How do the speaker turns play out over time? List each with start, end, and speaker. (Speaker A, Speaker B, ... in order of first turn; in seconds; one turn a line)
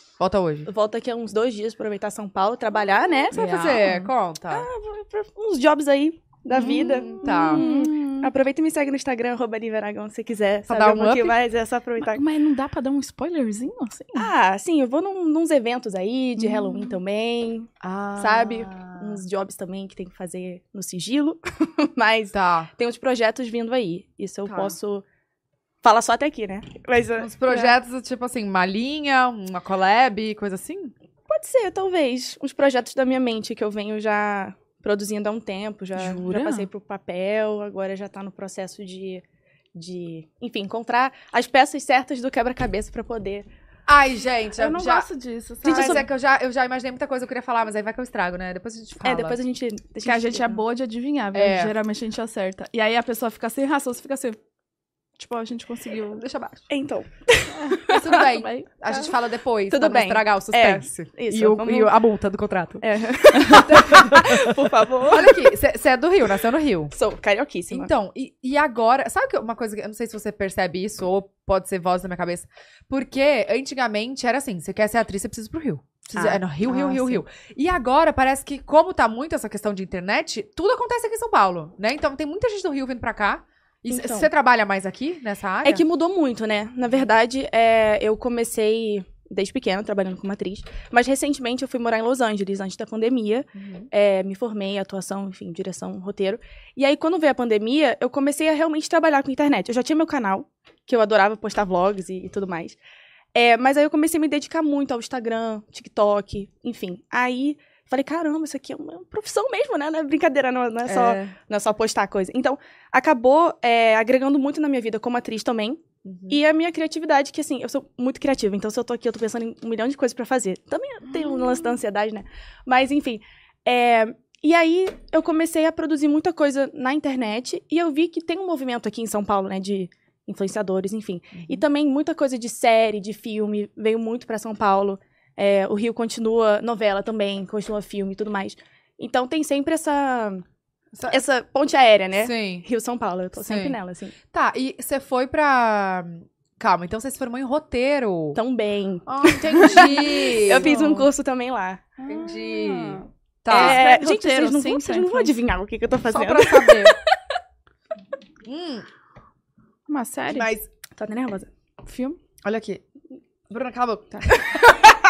Speaker A: 0.2-0.7
Speaker B: 0.7-3.5
Speaker A: 3.3-4.7
Speaker C: 3.3-4.1
Speaker B: 4.5-12.2
Speaker C: 6.6-8.3
Speaker A: 6.9-7.6
Speaker A: 10.7-11.4
Speaker C: 12.0-14.3
Speaker B: 14.2-25.0
Speaker C: 16.5-17.0
Speaker A: 17.8-19.2
Speaker A: 22.3-22.7
Speaker C: 24.5-24.8
Speaker B: 25.8-27.7
Speaker A: 27.2-30.9
Speaker B: 31.3-39.2
Speaker C: 36.0-36.7
Speaker B: 39.7-43.5
Speaker A: 43.9-45.1
Speaker C: 44.6-46.1
Speaker B: 45.6-46.0
Speaker A: 45.6-49.4
Speaker B: 49.0-50.6
Speaker C: 50.0-54.4
Speaker A: 51.3-51.7
Speaker C: 55.2-56.2
Speaker A: 56.2-56.7
Speaker B: 56.7-58.3
Speaker C: 57.6-59.0
Speaker A: 57.9-64.5
Speaker B: 59.7-61.9
Speaker B: 62.8-65.4
Speaker A: 65.1-66.9
Speaker B: 66.9-67.9
Speaker A: 67.7-85.8
Speaker B: 76.1-77.2
Speaker B: 83.9-84.3
Speaker B: 85.6-102.8
Speaker A: 93.5-93.9
Speaker B: 103.3-140.4
Speaker A: 110.9-111.3
Speaker A: 116.0-116.4
Speaker A: 140.9-141.2
Speaker B: 141.1-144.2
Speaker A: 142.2-142.7
Speaker A: 143.4-143.8
Speaker A: 144.3-148.4
Speaker B: 148.3-151.8
Speaker A: 149.1-151.1
Speaker C: 149.5-150.9
Speaker C: 152.0-155.3
Speaker A: 152.0-153.8
Speaker B: 153.5-156.9
Speaker A: 156.1-157.0
Speaker A: 158.4-158.9
Speaker C: 159.9-160.5
Speaker B: 160.4-161.5
Speaker A: 160.4-160.6
Speaker C: 161.8-162.2
Speaker A: 162.4-162.8
Speaker A: 163.5-164.8